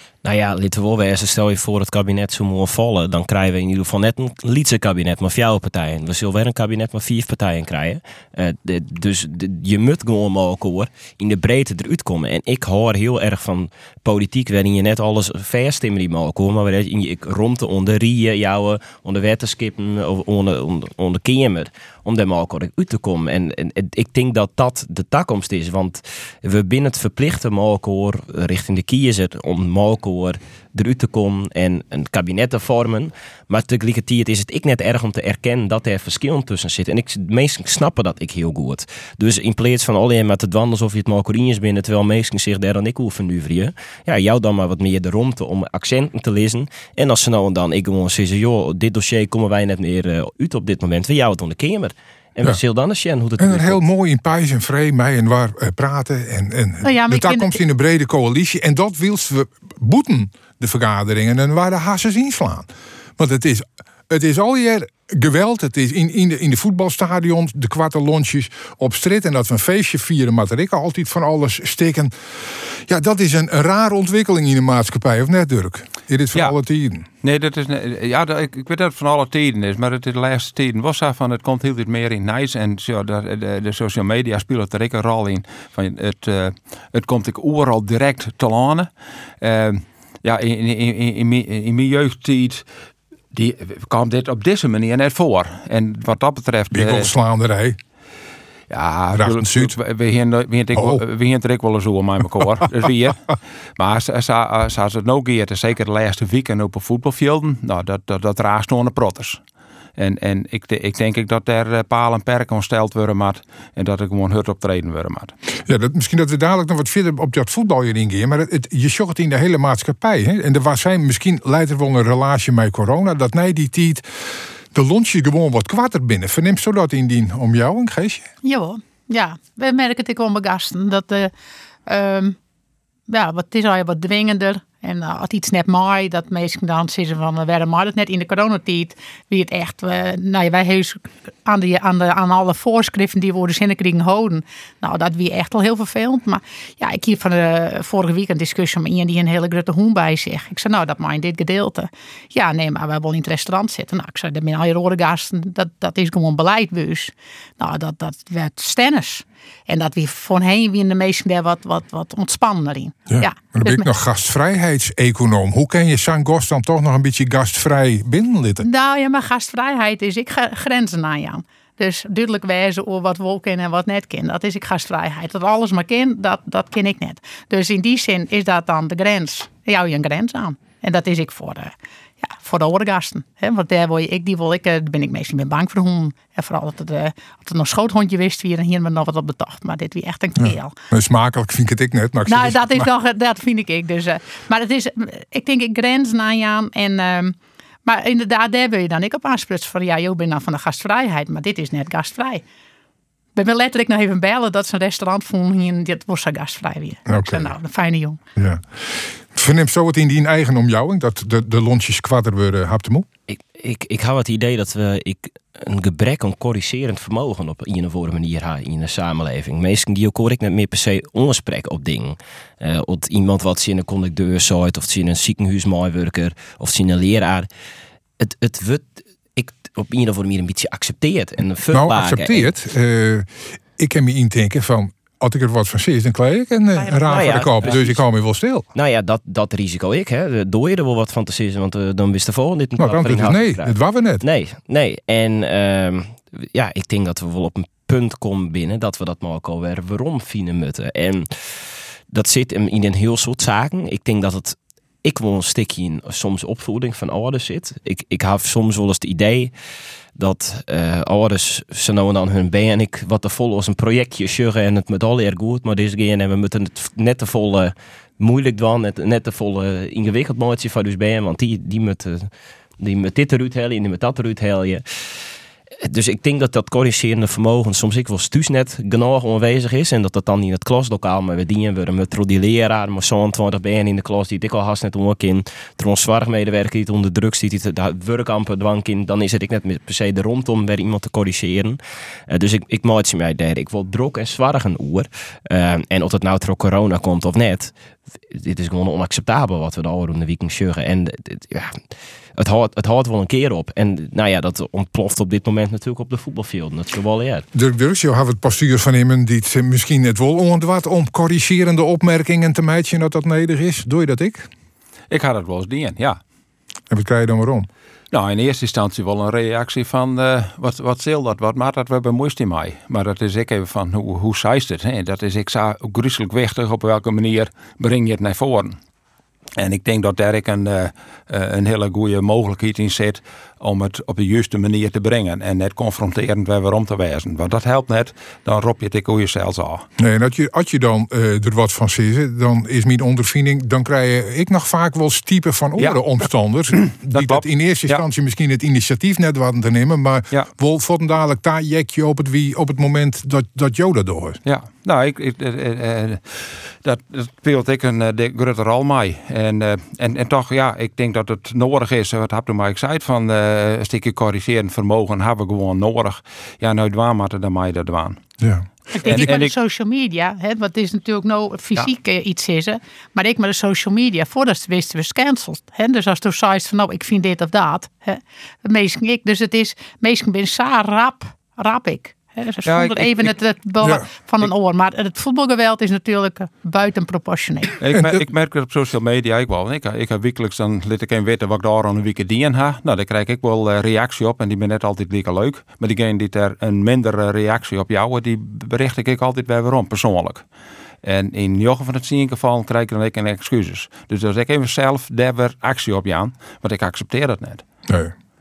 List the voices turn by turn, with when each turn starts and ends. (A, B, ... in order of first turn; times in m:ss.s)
0:00.2-0:53.8 A
0:53.4-1:17.0 B
0:56.8-0:57.6 C
1:17.2-1:28.9 D
1:29.4-1:32.6 D
1:33.3-1:37.1 D
1:36.7-1:37.8 B
1:38.7-1:49.4 D
1:39.2-1:39.7 B
1:40.7-1:41.0 B
1:50.0-1:55.3 D
1:55.6-2:08.3 B
2:08.4-2:11.3 C
2:11.9-2:12.4 C
2:13.1-2:43.8 C
2:43.1-2:48.6 B
2:48.6-3:10.7 C
3:10.4-3:12.9 B
3:12.3-3:22.4 C
3:23.3-3:28.2 C
3:27.1-3:27.5 B
3:28.4-3:33.1 B
3:33.3-3:47.5 A
3:48.2-3:52.5 A
3:51.7-3:58.6 B
3:56.8-3:57.4 C
3:57.0-3:58.0 A
3:58.7-4:19.5 A
4:02.8-4:04.2 B
4:20.2-4:34.8 A
4:35.8-4:57.7 A
4:58.3-5:01.8 A
5:02.4-5:07.4 A
5:07.5-5:14.5 B
5:15.1-5:16.2 D
5:16.9-5:17.7 B
5:18.1-5:28.8 D
5:29.6-5:39.8 D
5:40.0-5:54.4 B
5:45.8-5:46.0 D
5:46.7-5:48.0 D
5:54.4-6:08.2 D
6:08.4-6:09.3 B
6:08.9-6:27.7 C
6:09.0-6:09.5 D
6:22.6-6:23.3 D
6:23.8-6:24.0 B
6:27.8-6:40.4 D
6:27.9-6:28.2 B
6:41.0-6:47.6 D
6:47.9-6:48.1 B